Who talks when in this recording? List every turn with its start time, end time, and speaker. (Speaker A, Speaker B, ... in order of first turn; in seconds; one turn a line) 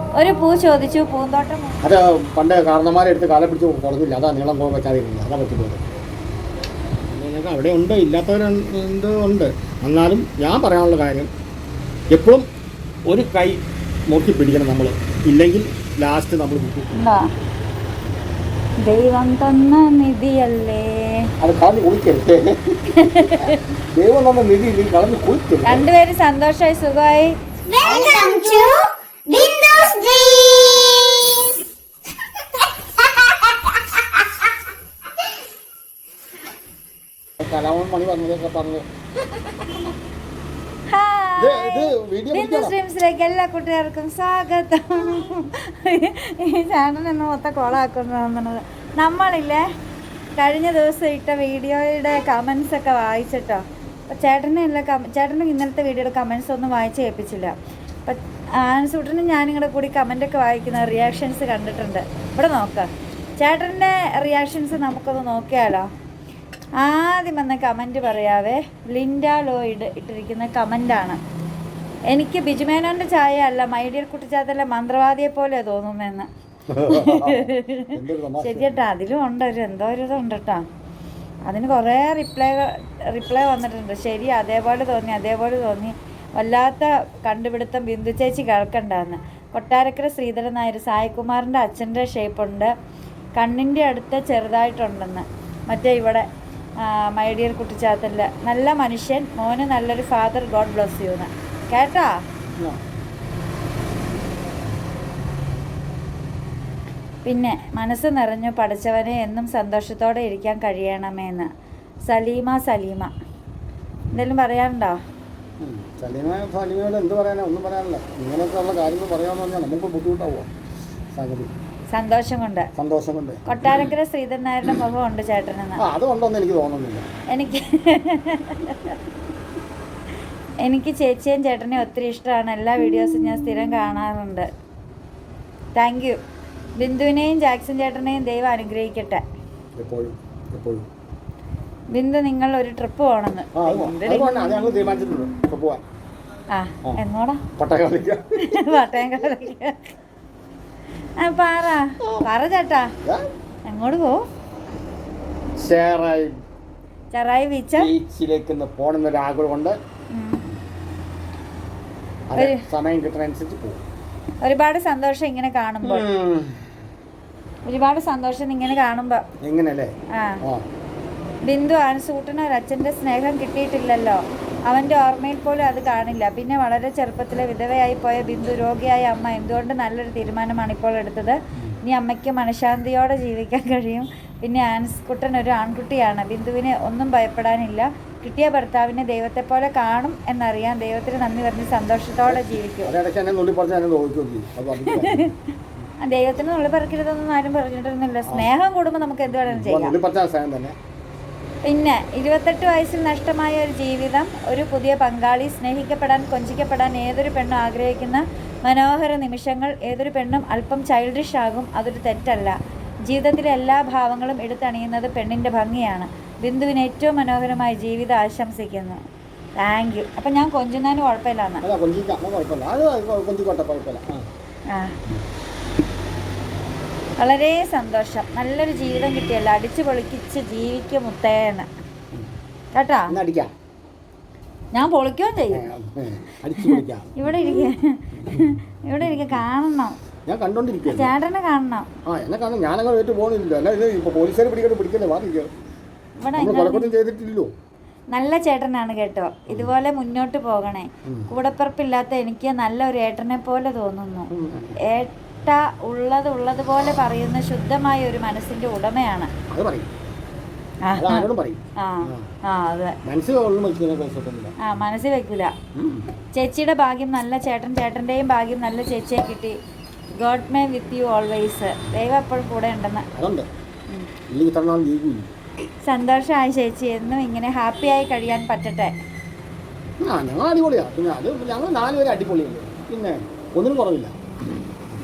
Speaker A: 0.2-1.8
Speaker B: 1.8-5.8
Speaker B: 7.1-11.3
Speaker B: 12.1-12.5
Speaker B: 13.1-17.5
Speaker A: 16.9-17.3
Speaker A: 18.8-21.3
Speaker B: 21.4-25.9
Speaker A: 23.0-23.6
Speaker A: 25.6-28.4
Speaker C: 27.7-31.6
Speaker C: 32.6-33.6
Speaker B: 37.4-38.9
Speaker A: 40.9-49.6
Speaker B: 41.4-42.8
Speaker A: 50.4-57.5
Speaker A: 58.1-65.9
Speaker A: 66.8-71.2
Speaker A: 72.1-76.3
Speaker B: 76.7-78.8
Speaker A: 76.9-80.6
Speaker A: 81.5-92.7
Speaker A: 93.4-96.3
Speaker A: 96.8-102.2
Speaker B: 102.6-102.8
Speaker A: 107.2-111.5
Speaker A: 112.1-113.1
Speaker A: 114.1-115.0
Speaker B: 115.6-120.5
Speaker B: 121.1-121.5
Speaker A: 121.9-122.7
Speaker B: 122.8-123.9
Speaker A: 123.5-125.8
Speaker B: 125.8-127.1
Speaker A: 127.3-129.0
Speaker A: 130.6-134.5
Speaker A: 135.8-136.2
Speaker A: 136.8-139.2
Speaker B: 139.8-140.9
Speaker A: 141.9-145.1
Speaker B: 143.5-145.8
Speaker A: 146.5-147.4
Speaker B: 147.6-148.8
Speaker A: 148.4-149.9
Speaker A: 151.2-152.9
Speaker A: 153.7-154.2
Speaker B: 155.6-156.4
Speaker A: 157.1-157.9
Speaker B: 157.8-159.8
Speaker A: 160.1-160.4
Speaker B: 162.3-163.8
Speaker A: 162.4-162.6
Speaker A: 164.4-166.1
Speaker B: 165.8-166.7
Speaker A: 167.7-169.2
Speaker B: 169.4-170.7
Speaker A: 170.1-170.4
Speaker A: 171.5-192.9
Speaker B: 192.3-195.8
Speaker A: 194.9-195.2
Speaker A: 196.0-200.0
Speaker B: 199.4-200.8
Speaker A: 201.6-212.6
Speaker A: 213.1-219.0
Speaker A: 219.6-221.6
Speaker B: 221.6-224.3
Speaker A: 224.7-225.0
Speaker A: 227.2-231.7
Speaker A: 232.8-233.2
Speaker B: 233.1-233.5
Speaker A: 234.7-235.6
Speaker B: 235.5-237.7
Speaker A: 236.6-240.0
Speaker B: 238.2-239.4
Speaker B: 240.3-241.1
Speaker A: 240.9-241.9
Speaker B: 242.1-245.5
Speaker A: 246.2-246.9
Speaker B: 246.3-247.5
Speaker A: 248.1-259.3
Speaker B: 251.1-251.3
Speaker B: 254.3-254.8
Speaker B: 259.5-259.9
Speaker A: 260.9-263.0
Speaker B: 260.9-262.3
Speaker B: 263.1-264.6
Speaker A: 264.6-265.5
Speaker B: 265.8-266.1
Speaker A: 266.4-269.6
Speaker A: 270.1-273.1
Speaker B: 273.1-273.5
Speaker B: 274.3-275.4
Speaker A: 275.8-278.9
Speaker B: 280.0-284.2